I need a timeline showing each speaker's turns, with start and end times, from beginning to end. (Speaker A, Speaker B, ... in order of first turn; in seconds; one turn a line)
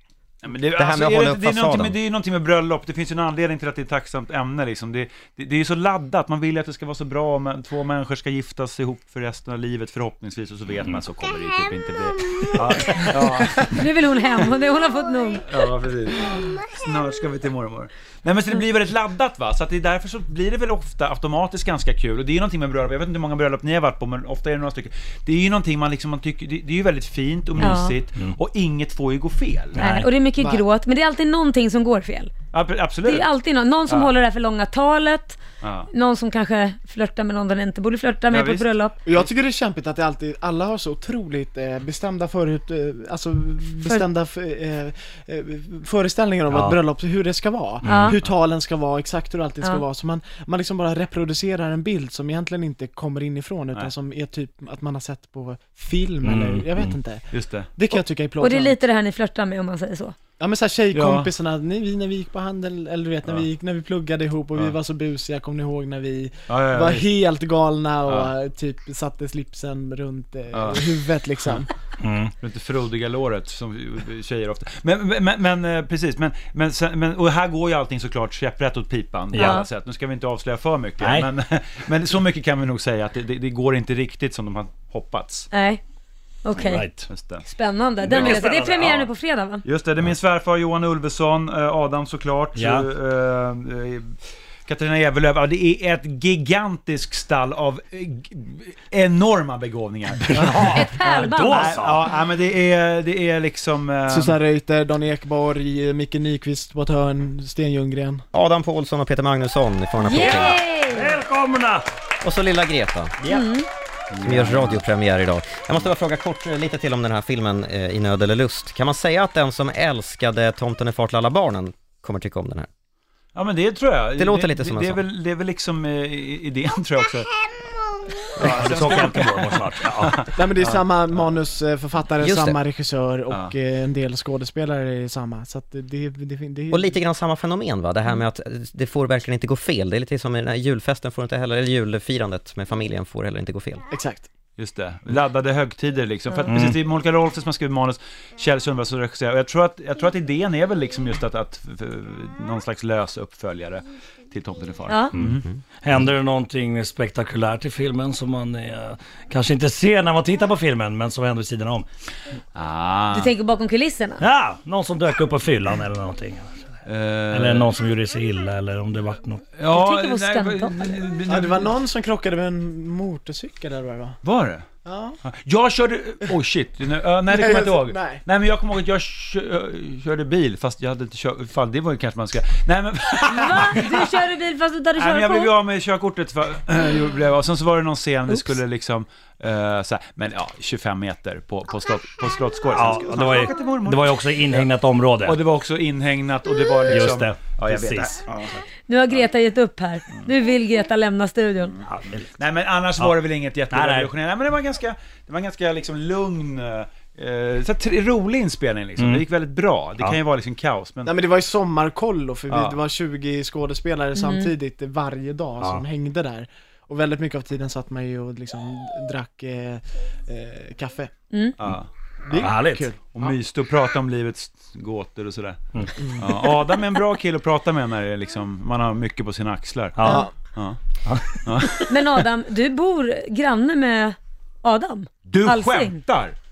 Speaker A: 0.4-13.9
Speaker B: 0.8-1.9
Speaker C: 13.6-15.4
Speaker A: 15.5-29.9
Speaker C: 27.6-27.9
Speaker D: 27.6-28.3
Speaker C: 29.8-32.3
Speaker D: 29.8-30.1
Speaker E: 30.4-30.6
Speaker A: 32.5-33.3
Speaker C: 33.0-35.4
Speaker A: 33.9-34.1
Speaker A: 35.6-35.9
Speaker C: 35.9-38.9
Speaker A: 38.3-39.3
Speaker E: 39.0-58.8
Speaker D: 46.5-46.8
Speaker D: 47.8-48.1
Speaker C: 47.9-48.1
Speaker D: 56.2-57.0
Speaker A: 57.3-57.7
Speaker C: 58.4-60.1
Speaker E: 60.4-71.7
Speaker A: 60.9-61.3
Speaker A: 66.5-67.1
Speaker A: 68.1-68.3
Speaker A: 70.5-70.8
Speaker D: 72.0-72.3
Speaker A: 72.4-85.5
Speaker D: 79.3-79.6
Speaker C: 79.3-79.7
Speaker D: 81.0-81.3
Speaker C: 85.5-85.8
Speaker C: 86.4-86.8
Speaker A: 86.6-87.5
Speaker D: 86.6-87.0
Speaker C: 87.5-89.6
Speaker A: 88.0-89.1
Speaker D: 88.1-89.0
Speaker A: 89.6-94.1
Speaker D: 92.6-92.8
Speaker A: 94.7-100.9
Speaker D: 100.3-102.0
Speaker C: 100.6-101.8
Speaker A: 101.5-104.4
Speaker E: 104.1-108.2
Speaker B: 108.3-110.6
Speaker C: 110.0-111.1
Speaker D: 110.2-111.8
Speaker B: 112.2-113.1
Speaker D: 113.2-113.5
Speaker C: 113.3-113.7
Speaker A: 114.1-114.8
Speaker B: 114.2-122.7
Speaker A: 123.3-127.3
Speaker B: 124.2-125.0
Speaker A: 128.4-130.8
Speaker D: 128.4-130.2
Speaker E: 130.3-136.9
Speaker B: 132.2-132.6
Speaker B: 136.7-143.8
Speaker E: 143.9-144.3
Speaker A: 144.6-155.5
Speaker D: 146.5-146.8
Speaker D: 155.1-161.9
Speaker A: 162.5-163.3
Speaker C: 163.1-164.2
Speaker D: 164.2-166.6
Speaker A: 166.8-167.7
Speaker D: 167.3-169.4
Speaker A: 169.5-171.7
Speaker C: 169.7-170.9
Speaker E: 171.2-174.2
Speaker A: 174.2-174.7
Speaker E: 174.8-175.2
Speaker A: 175.2-184.1
Speaker E: 177.3-178.2
Speaker C: 183.2-185.5
Speaker A: 185.0-194.7
Speaker D: 192.7-195.4
Speaker A: 195.2-198.6
Speaker D: 196.9-198.5
Speaker C: 198.9-201.8
Speaker D: 201.8-202.3
Speaker A: 202.4-211.1
Speaker D: 203.7-204.1
Speaker D: 209.0-209.2
Speaker E: 211.0-221.1
Speaker A: 212.5-212.8
Speaker C: 214.2-214.5
Speaker C: 221.3-221.6
Speaker A: 221.6-221.9
Speaker E: 222.2-223.3
Speaker D: 222.3-222.9
Speaker A: 223.1-225.6
Speaker E: 226.0-226.4
Speaker A: 226.2-230.8
Speaker D: 230.0-230.3
Speaker E: 230.0-230.3
Speaker D: 231.1-231.4
Speaker A: 231.4-231.9
Speaker C: 231.9-236.0
Speaker A: 235.2-236.3